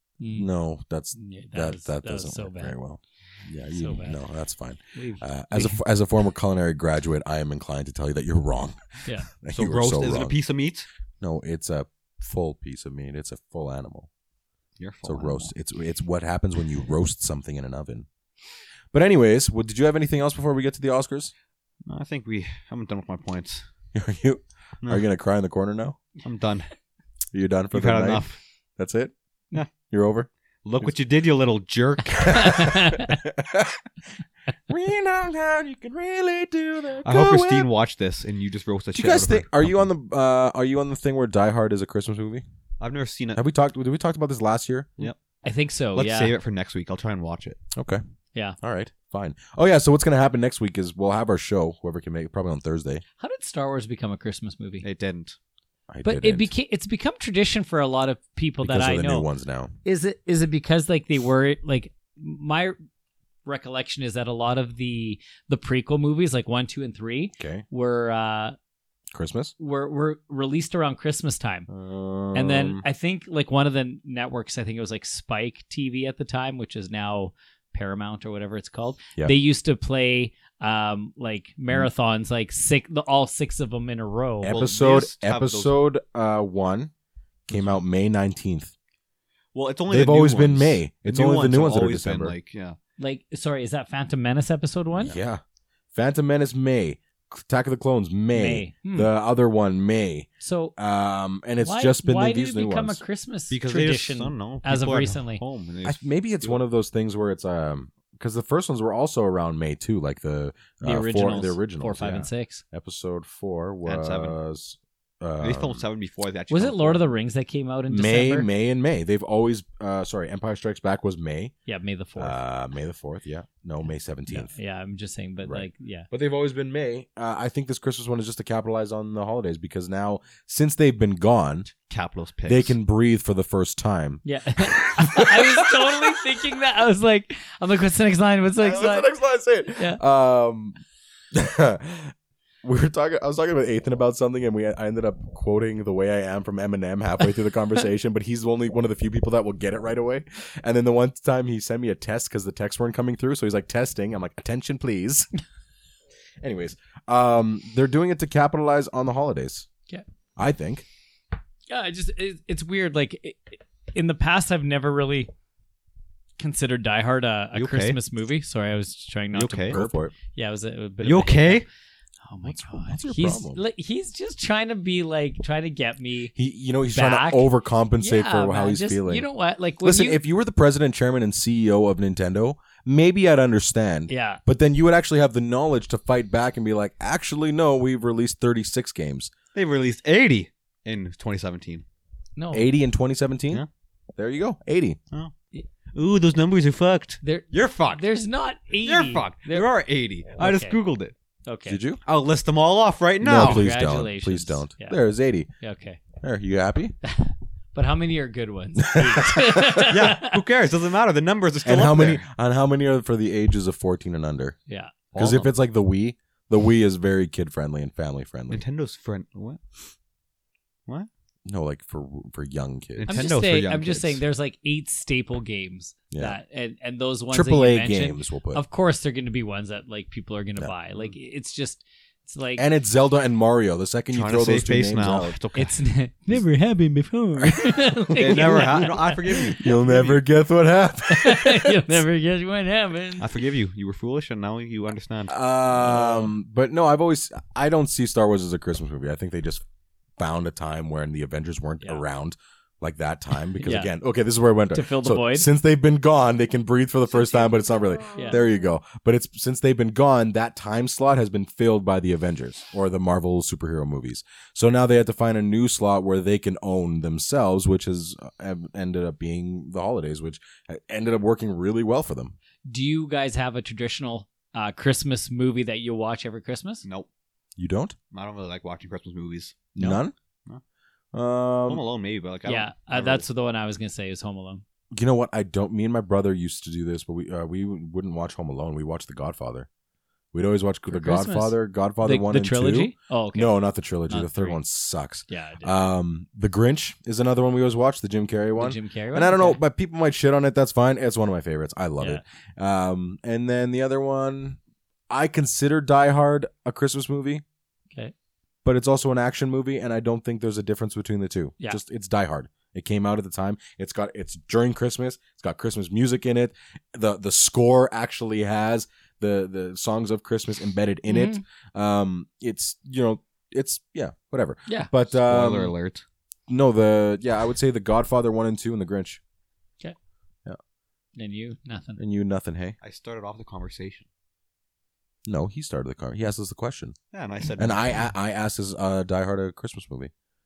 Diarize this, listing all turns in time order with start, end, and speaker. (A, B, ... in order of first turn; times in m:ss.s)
0:00.2-0:00.5 A
0:00.3-0:10.3 B
0:01.2-0:02.7 A
0:03.7-0:04.2 A
0:04.9-0:05.8 A
0:09.5-0:10.9 C
0:11.2-0:14.1 B
0:14.8-0:15.5 C
0:15.0-0:18.1 B
0:18.9-0:21.3 B
0:21.8-0:23.6 C
0:23.9-0:26.0 B
0:26.2-0:26.7 C
0:27.3-0:28.2 B
0:27.7-0:28.4 C
0:28.8-0:29.1 B
0:29.7-0:30.3 B
0:30.6-0:32.8 C
0:32.2-0:33.8 B
0:32.3-0:33.2 A
0:34.7-0:37.7 B
0:37.0-0:39.7 C
0:38.9-0:42.4 B
0:42.8-0:43.4 C
0:43.3-0:45.0 B
0:45.4-0:46.3 A
0:45.9-0:47.6 C
0:47.7-0:48.0 B
0:48.6-0:53.0 B
0:53.2-0:54.8 A
0:54.8-0:55.4 C
0:55.9-0:56.5 B
0:56.0-0:59.3 A
0:58.6-0:59.7 B
0:59.8-1:02.8 A
1:03.4-1:08.6 A
1:07.4-1:07.6 B
1:09.1-1:09.5 B
1:09.6-1:11.7 A
1:11.7-1:12.8 B
1:12.3-1:24.6 A
1:24.4-1:26.9 B
1:24.5-1:25.8 C
1:27.5-1:28.7 B
1:29.5-1:32.8 C
1:29.9-1:32.3 B
1:33.0-1:35.2 A
1:35.0-1:35.4 B
1:35.9-1:43.0 B
1:38.3-1:39.1 A
1:40.4-1:40.7 A
1:41.6-1:45.4 A
1:43.5-1:46.6 C
1:45.8-1:55.8 B
1:50.8-1:52.6 A
1:53.8-1:54.4 C
1:55.4-1:57.1 C
1:56.5-1:58.5 A
1:57.9-2:01.5 B
2:01.6-2:02.4 A
2:02.2-2:04.5 B
2:04.3-2:06.1 A
2:05.4-2:11.7 B
2:11.9-2:12.7 C
2:12.5-2:16.2 B
2:14.2-2:19.1 A
2:18.6-2:20.8 B
2:19.7-2:20.0 A
2:21.3-2:35.3 B
2:36.4-2:39.7 B
2:40.4-2:40.8 B
2:41.7-2:45.3 A
2:46.4-2:51.6 A
2:47.5-2:48.0 C
2:49.3-2:49.8 C
2:49.7-2:50.1 B
2:51.0-2:51.6 C
2:52.2-2:56.3 A
2:52.4-2:53.6 B
2:56.4-2:59.2 B
2:56.9-3:00.2 A
2:59.8-3:09.3 B
3:04.1-3:04.4 A
3:09.5-3:11.8 C
3:12.4-3:12.7 A
3:12.5-3:13.6 B
3:14.2-3:15.0 B
3:15.9-3:18.0 C
3:17.2-3:19.7 A
3:18.8-3:21.1 C
3:20.4-3:20.8 A
3:21.4-3:21.8 A
3:21.7-3:22.0 B
3:22.0-3:23.6 C
3:23.2-3:25.5 B
3:23.3-3:25.0 A
3:25.6-3:26.0 A
3:26.2-3:27.0 B
3:27.0-3:30.4 A
3:28.8-3:29.9 B
3:29.8-3:32.2 C
3:31.6-3:34.6 B
3:34.7-3:34.9 A
3:35.1-3:35.5 C
3:35.2-3:38.6 B
3:38.5-3:39.6 C
3:41.4-3:43.2 B
3:43.0-3:44.2 C
3:43.1-3:52.6 A
3:46.1-3:46.4 B
3:47.3-3:48.6 B
3:52.6-3:55.4 B
3:54.1-3:55.8 C
3:55.5-3:59.7 A
3:57.4-3:58.9 B
3:58.2-4:00.2 C
3:59.5-4:02.0 B
4:01.1-4:03.3 A
4:03.2-4:05.4 C
4:05.3-4:09.6 B
4:05.7-4:06.3 A
4:10.2-4:32.3 B
4:13.6-4:13.9 A
4:14.7-4:15.5 A
4:18.1-4:18.4 A
4:32.7-4:36.8 A
4:37.6-4:38.0 B
4:38.1-4:39.7 C
4:39.7-4:40.1 B
4:41.1-4:41.8 B
4:41.6-4:43.2 C
4:42.4-4:44.6 A
4:44.9-4:49.7 B
4:50.3-5:04.6 B
4:50.9-4:54.6 A
4:55.3-4:55.7 A
4:58.6-4:59.6 A
5:05.1-5:07.4 B
5:08.6-5:25.7 B
5:21.1-5:21.4 A
5:25.1-5:26.0 C
5:26.5-5:29.2 B
5:31.2-5:32.0 A
5:32.0-5:32.8 B
5:32.8-5:34.1 C
5:35.2-5:36.9 B
5:37.1-5:38.0 C
5:37.6-5:40.1 B